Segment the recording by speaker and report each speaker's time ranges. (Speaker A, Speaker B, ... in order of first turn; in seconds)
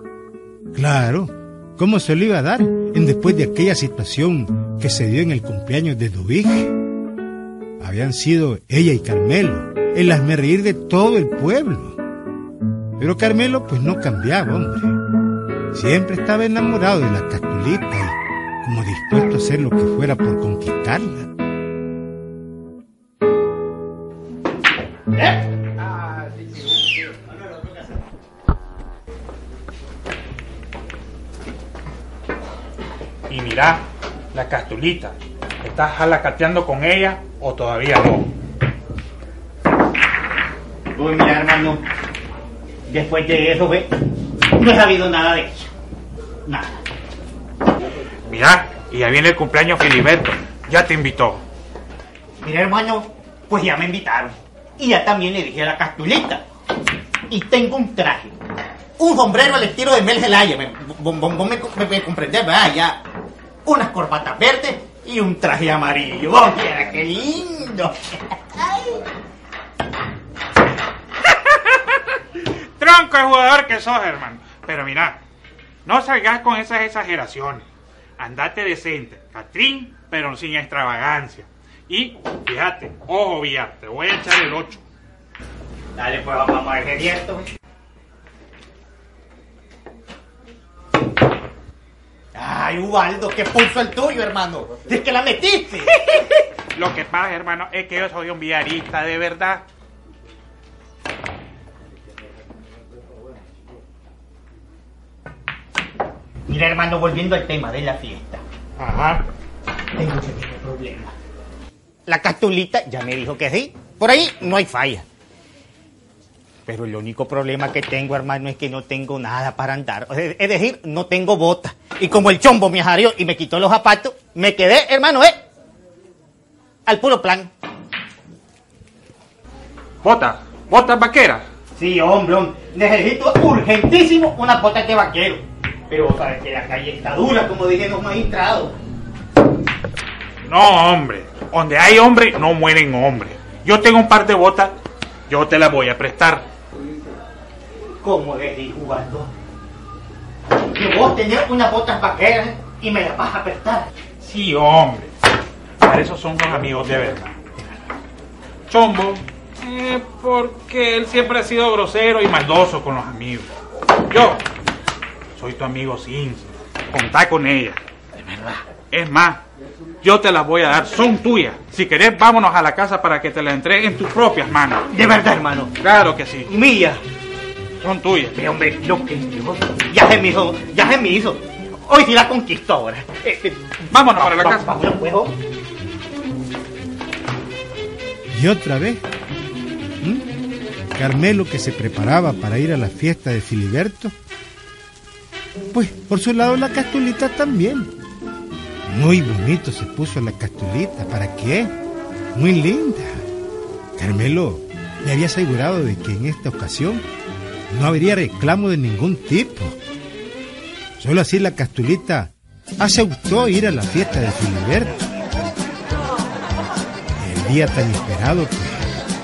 Speaker A: 0.7-6.8, 7.8-12.0, 13.0-15.0, 15.7-21.3, 188.3-189.0, 190.0-190.3, 190.9-194.2, 195.7-197.9, 198.9-201.7, 202.3-203.2, 204.0-207.1, 207.7-209.8, 211.0-215.0, 217.1-218.9
Speaker B: 33.3-38.3, 48.3-51.4, 71.3-75.2, 75.8-77.6, 78.2-84.8, 96.7-99.6, 108.8-109.2, 130.0-131.4, 140.5-144.8, 145.3-146.4, 154.2-155.1, 155.8-157.3, 158.7-163.5, 164.1-164.4, 165.3-167.8, 168.9-169.4, 170.0-174.9, 175.8-176.5, 177.8-178.4, 183.9-184.7
Speaker C: 40.9-41.8, 42.9-43.9, 44.5-45.7, 46.5-46.8, 52.4-56.4, 57.3-58.4, 59.0-63.0, 63.6-68.9, 86.0-87.5, 92.3-96.4, 106.5-108.4, 110.0-111.1, 112.0-115.0, 116.7-125.4, 126.8-127.5, 131.8-138.7, 148.0-149.3, 150.6-153.9, 168.2-168.6, 174.9-175.7, 176.4-177.0, 178.3-185.3